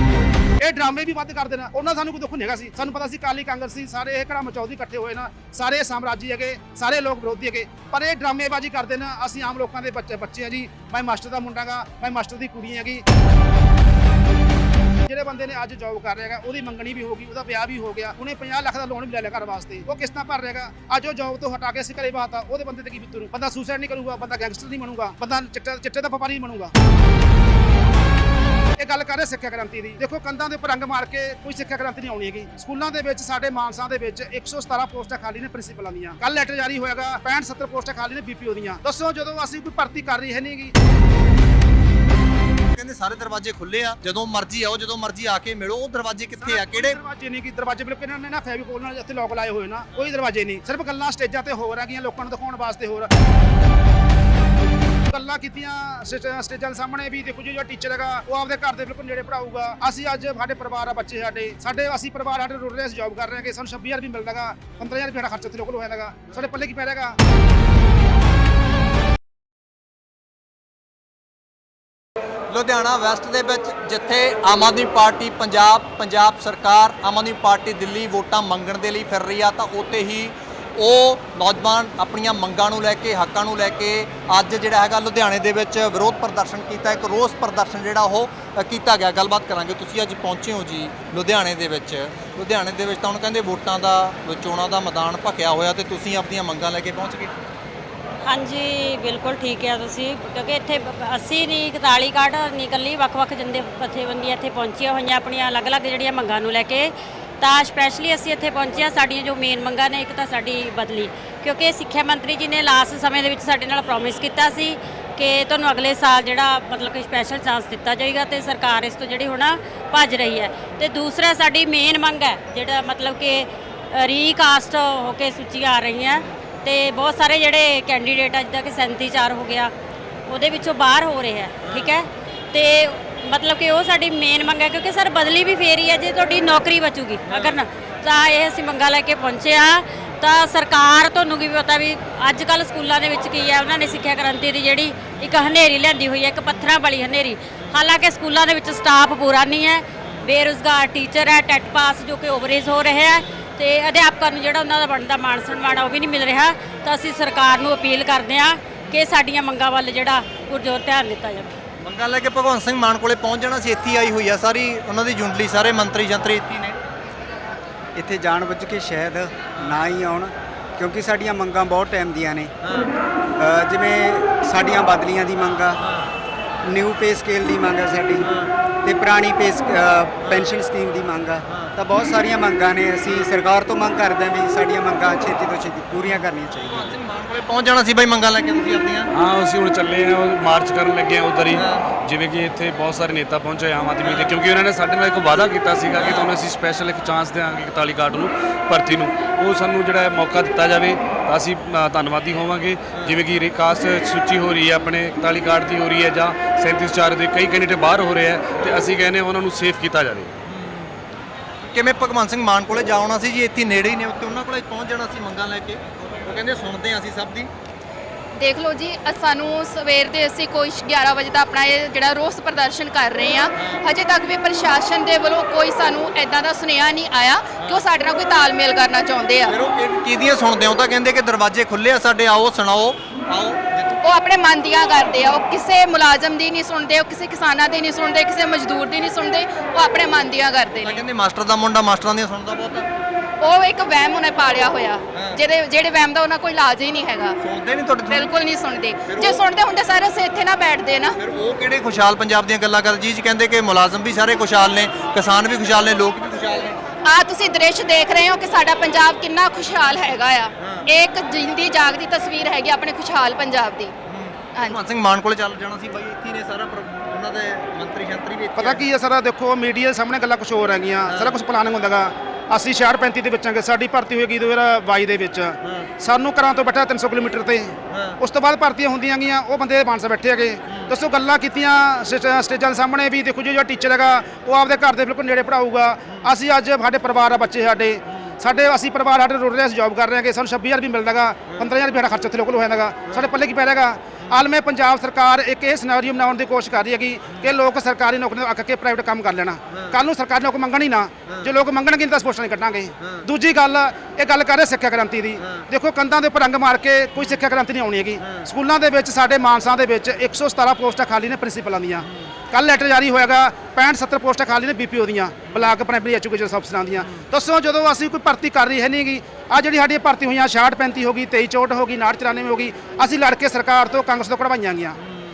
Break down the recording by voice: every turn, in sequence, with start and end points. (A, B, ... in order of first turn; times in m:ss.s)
0:00.6-0:13.0 A
0:15.0-0:26.7 A
0:28.8-0:40.7 A
0:42.7-0:47.0 B
0:46.4-0:53.1 A
0:55.1-1:07.2 A
1:12.5-1:37.3 B
1:38.2-2:09.7 C
2:10.3-2:41.5 C
2:17.3-2:17.6 B
2:41.8-2:46.8 B
2:48.0-2:52.5 D
2:52.6-2:52.9 B
2:53.4-2:55.8 D
2:56.6-2:58.3 D
2:58.3-2:58.5 B
2:58.8-3:07.0 D
3:00.2-3:00.5 B
3:06.7-3:09.1 B
3:09.1-3:30.3 E
3:11.5-3:11.8 B
3:14.0-3:14.4 B
3:16.0-3:16.3 B
3:30.5-3:30.9 B
3:31.7-3:37.5 B
3:38.3-3:49.5 F
3:43.6-3:43.9 B
3:47.6-3:47.8 B
3:49.5-3:54.0 B
3:54.0-4:01.0 F
4:00.8-4:02.9 B
4:03.4-4:07.4 F
4:05.1-4:05.4 B
4:07.4-4:08.3 B
4:08.1-4:11.2 F
4:09.1-4:09.4 B
4:11.2-4:16.8 B
4:17.0-4:23.9 F
4:20.6-4:20.9 B
4:24.1-4:28.8 B
4:28.6-5:25.0 A
4:31.1-4:31.4 B
4:37.9-4:38.2 B
4:59.7-5:00.0 B
5:01.3-5:01.5 B
5:03.0-5:03.3 B
5:05.4-5:05.7 B
5:08.2-5:08.5 B